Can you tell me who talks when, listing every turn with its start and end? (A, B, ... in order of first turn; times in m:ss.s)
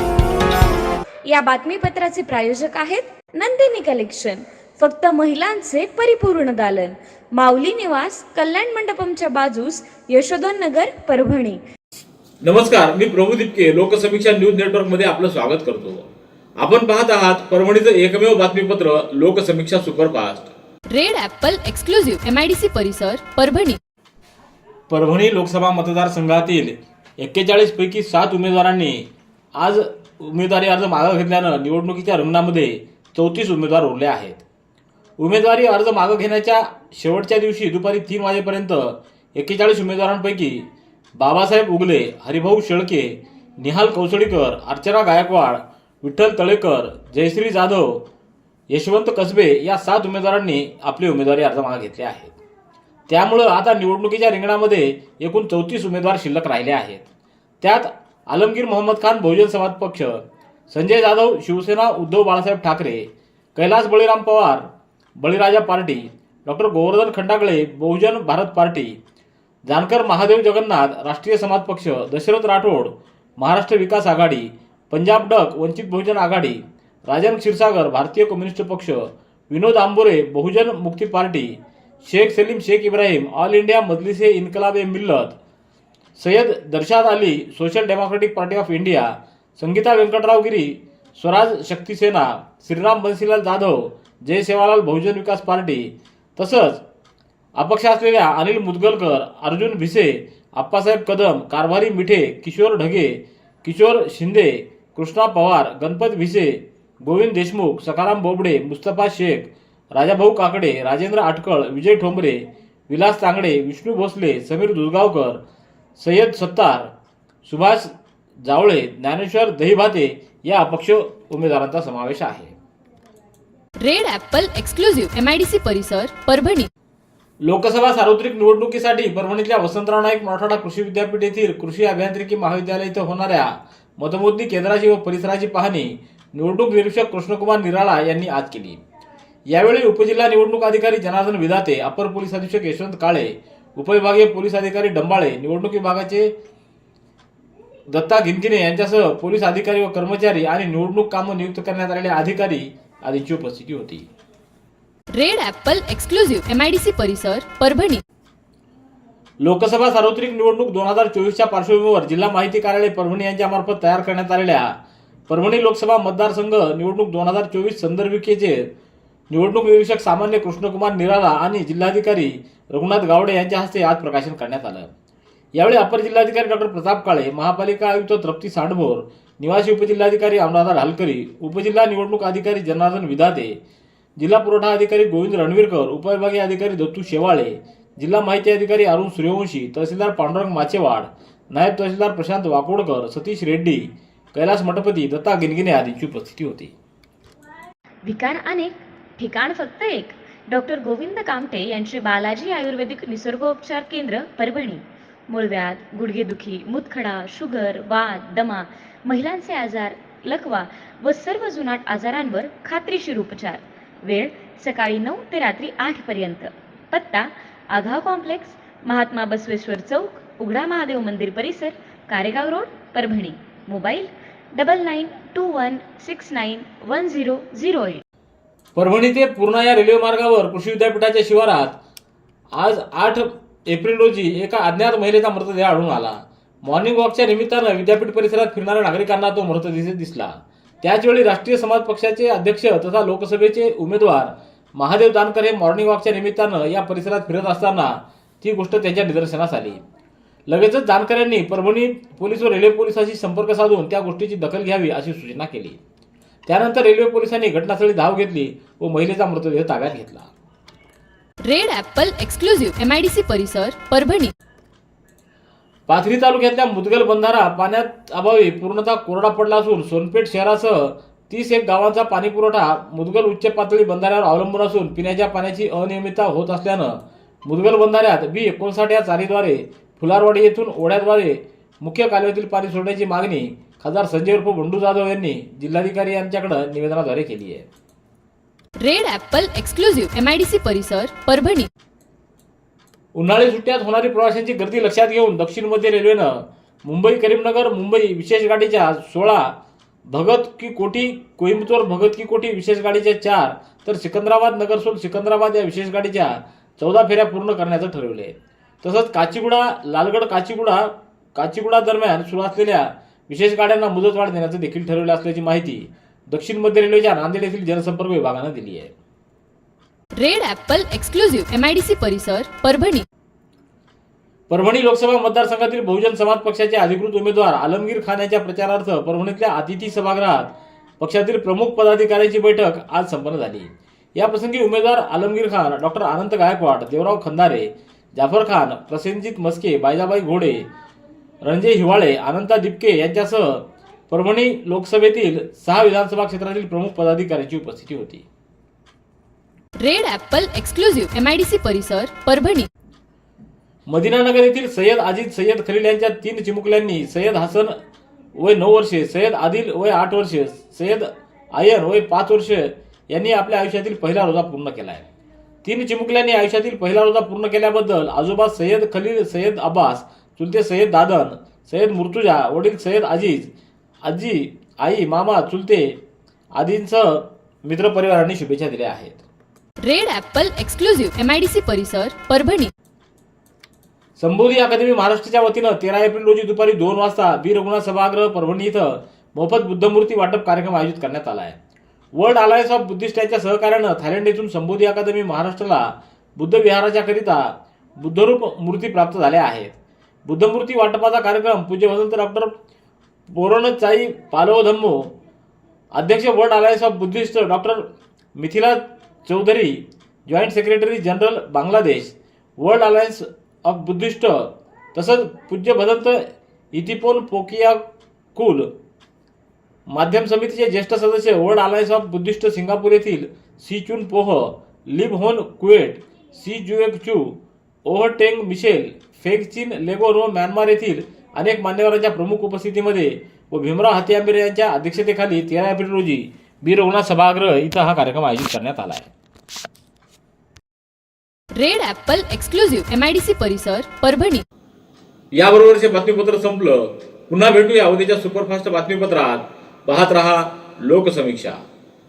0:01.3-0:11.6 A
0:12.4-0:16.1 B
0:16.6-0:20.5 B
0:20.9-0:23.8 C
0:24.9-0:34.4 B
0:35.2-0:48.1 B
0:48.7-0:52.3 B
0:53.1-0:57.0 B
0:57.6-1:09.0 B
1:09.6-1:25.4 B
1:26.2-1:36.8 B
1:37.5-1:55.4 B
1:56.0-1:56.9 B
1:57.4-1:57.9 B
1:58.4-2:02.5 B
2:03.8-2:06.7 C
2:07.4-2:18.8 B
2:19.5-2:26.3 B
2:27.9-2:34.1 B
2:35.1-2:38.0 C
2:39.4-2:44.7 B
2:45.3-2:48.7 B
2:49.3-2:54.9 B
2:55.5-3:03.6 B
3:04.2-3:16.7 B
3:18.0-3:48.0 A
3:48.7-3:51.8 B
3:52.5-4:09.8 B
4:10.5-4:15.8 B
4:16.5-4:20.3 B
4:21.4-4:24.3 C
4:25.9-4:47.6 B
4:48.8-4:51.7 C
4:53.1-4:59.6 B
5:00.1-5:18.9 B
5:20.2-5:23.0 C
5:24.5-5:40.7 B
5:41.4-5:48.2 B
5:49.8-5:52.7 C
5:53.9-5:57.8 B
5:58.4-6:05.0 B
6:05.6-6:13.5 B
6:14.0-6:16.0 B
6:16.6-6:19.2 B
6:19.8-6:22.7 C
6:24.2-6:31.6 B
6:32.1-6:42.5 B
6:43.3-6:45.1 B
6:45.9-6:57.8 B
6:58.3-6:58.7 B
6:59.9-7:19.1 B
7:21.5-7:24.4 C
7:25.3-7:31.6 B